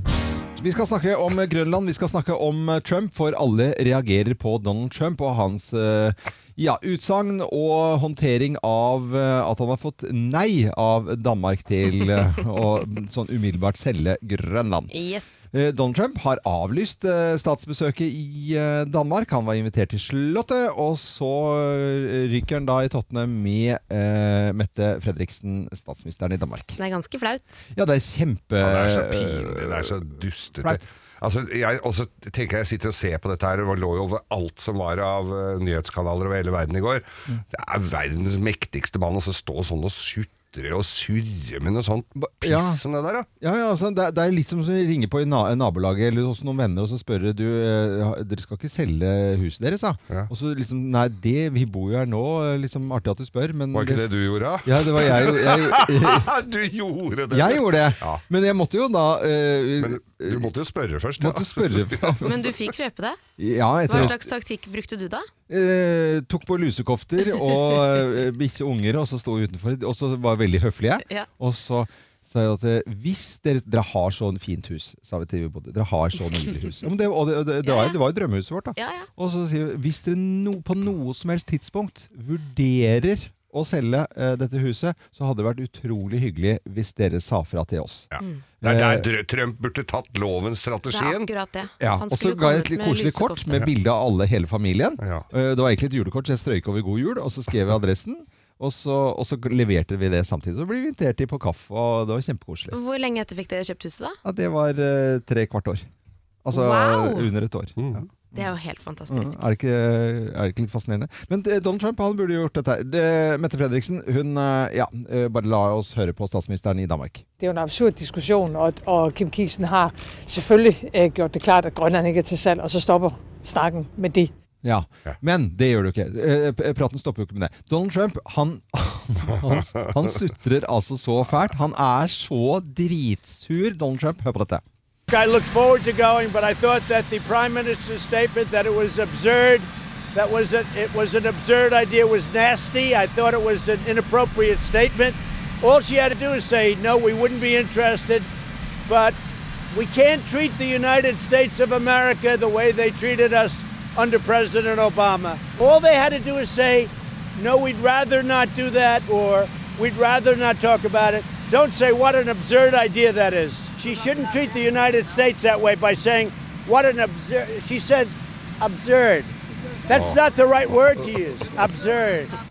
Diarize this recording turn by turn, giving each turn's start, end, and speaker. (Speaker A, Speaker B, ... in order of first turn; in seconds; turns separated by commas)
Speaker A: 0.6-14.9, Speaker B: 14.9-15.5, Speaker A: 15.5-26.8, Speaker B: 26.8-27.6, Speaker A: 27.8-29.9, Speaker C: 28.6-43.3, Speaker A: 42.2-42.8, Speaker A: 43.4-54.1, Speaker C: 53.7-58.2, Speaker A: 54.6-56.3, Speaker A: 57.3-60.5, Speaker C: 59.8-62.5, Speaker A: 61.2-62.3, Speaker B: 62.2-63.2, Speaker A: 63.4-64.2, Speaker B: 63.9-65.3, Speaker A: 65.5-88.1, Speaker B: 77.6-78.0, Speaker B: 78.8-79.1, Speaker C: 88.1-91.3, Speaker A: 88.6-89.1, Speaker B: 90.9-93.7, Speaker A: 91.8-102.8, Speaker C: 95.0-95.3, Speaker B: 102.7-104.2, Speaker A: 104.2-105.9, Speaker A: 106.5-107.8, Speaker B: 106.5-107.3, Speaker C: 107.8-108.1, Speaker B: 108.3-109.4, Speaker A: 109.1-117.2, Speaker D: 117.4-124.3, Speaker A: 124.6-134.6, Speaker E: 135.1-148.3, Speaker E: 148.9-149.2, Speaker E: 149.7-169.3, Speaker E: 169.9-172.3, Speaker C: 169.9-170.2